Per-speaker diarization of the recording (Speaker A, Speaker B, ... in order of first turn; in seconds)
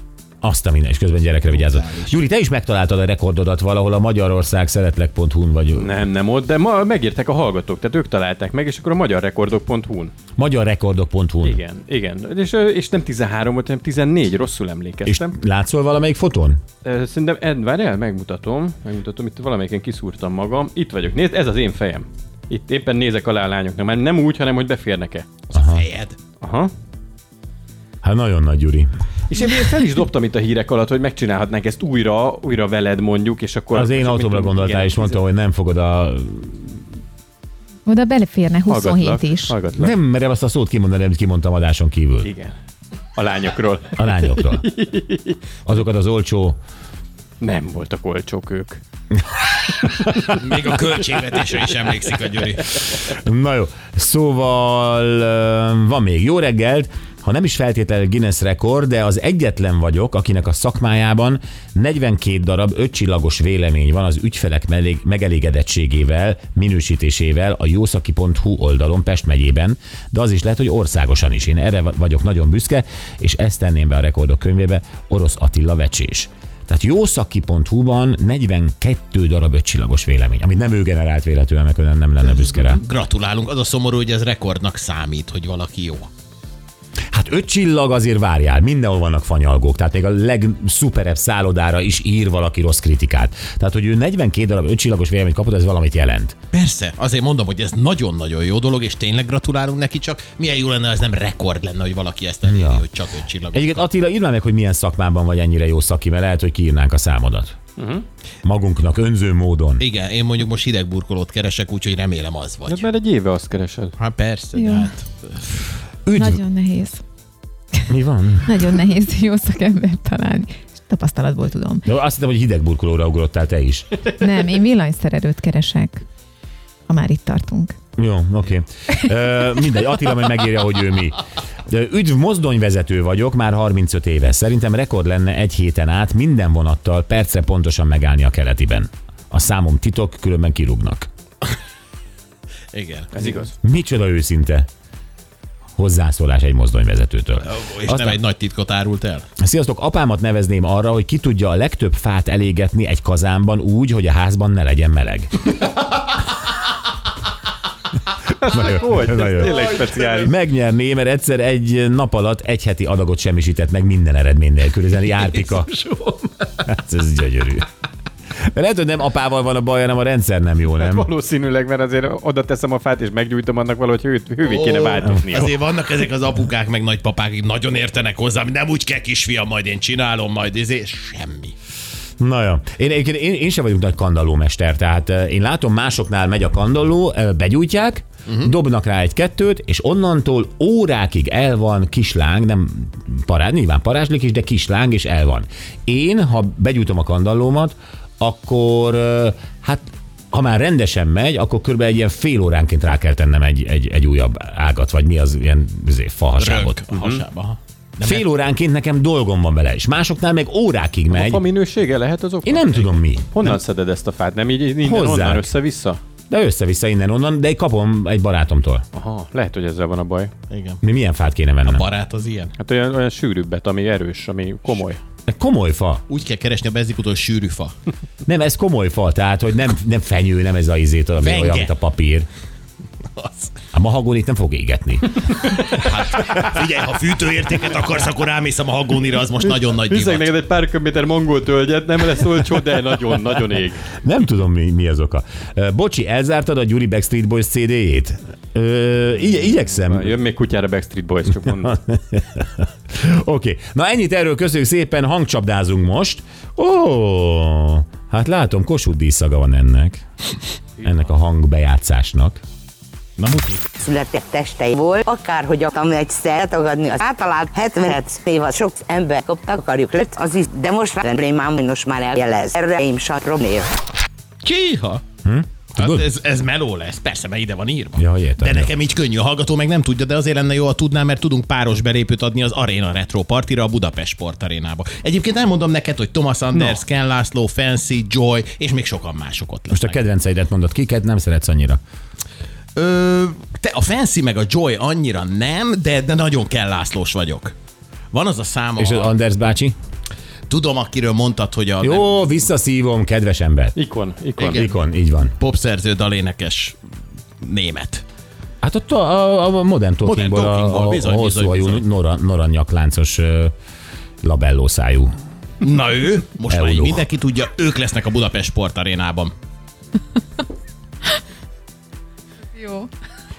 Speaker A: 0.4-5.9, 10.4-11.6, 15.1-16.6, 25.5-25.8, 28.0-28.9, 33.7-36.8, 39.7-42.3, 44.0-44.6, 45.6-46.6, 53.0-82.8, 87.1-96.3, 102.4-102.8, 103.5-107.5, 108.4-109.8, 116.0-116.4, 117.9-118.7, 121.8-123.9, 128.0-141.1, 143.6-144.7, 145.8-148.2, 149.4-155.3, 158.4-165.7, 166.6-167.7, 168.5-171.1, 182.2-206.8, 208.0-211.4, 212.4-213.3, 214.8-215.5, 216.3-218.8, 220.8-221.9, 225.3-226.0, 228.2-232.3, 233.7-235.2, 243.9-250.2, 251.6-260.0, 260.8-262.4, 275.2-276.1, 277.9-278.7, 289.7-291.8, 298.8-299.8, 301.8-303.7, 304.5-305.3, 308.6-313.5, 314.2-315.1, 316.5-317.1
Speaker B: 1.5-2.2, 25.5-26.2, 50.3-52.9, 82.3-86.1, 96.5-103.8, 109.8-112.8, 114.0-115.5, 142.7-143.3, 147.4-149.3, 174.4-181.5, 188.2-188.5, 206.4-208.2, 220.5-220.8, 221.6-222.5, 226.1-227.7, 231.2-231.7, 233.2-233.5, 235.6-240.3, 263.2-263.6, 274.4-275.0, 275.8-290.0, 292.8-297.5, 298.1-299.1, 300.5-302.1, 304.4-304.8, 305.3-306.8, 307.4-308.0, 310.0-311.8, 315.6-319.3
Speaker C: 5.8-10.1, 11.4-15.3, 16.8-25.3, 26.4-26.7, 29.3-35.2, 38.6-40.0, 42.2-42.5, 43.1-45.4, 47.4-48.8, 49.8-50.3, 107.8-108.0, 112.7-113.9, 143.1-143.5, 158.4-160.3, 170.7-175.5, 206.9-207.2, 211.1-216.0, 218.9-220.3, 222.6-225.0, 239.7-243.9, 249.3-251.8, 260.8-261.1, 303.8-304.7
Speaker D: 37.9-39.5, 114.5-114.9, 116.1-117.0, 118.5-121.8, 124.2-126.0, 126.9-127.8, 322.5-322.9
Speaker E: 263.8-273.7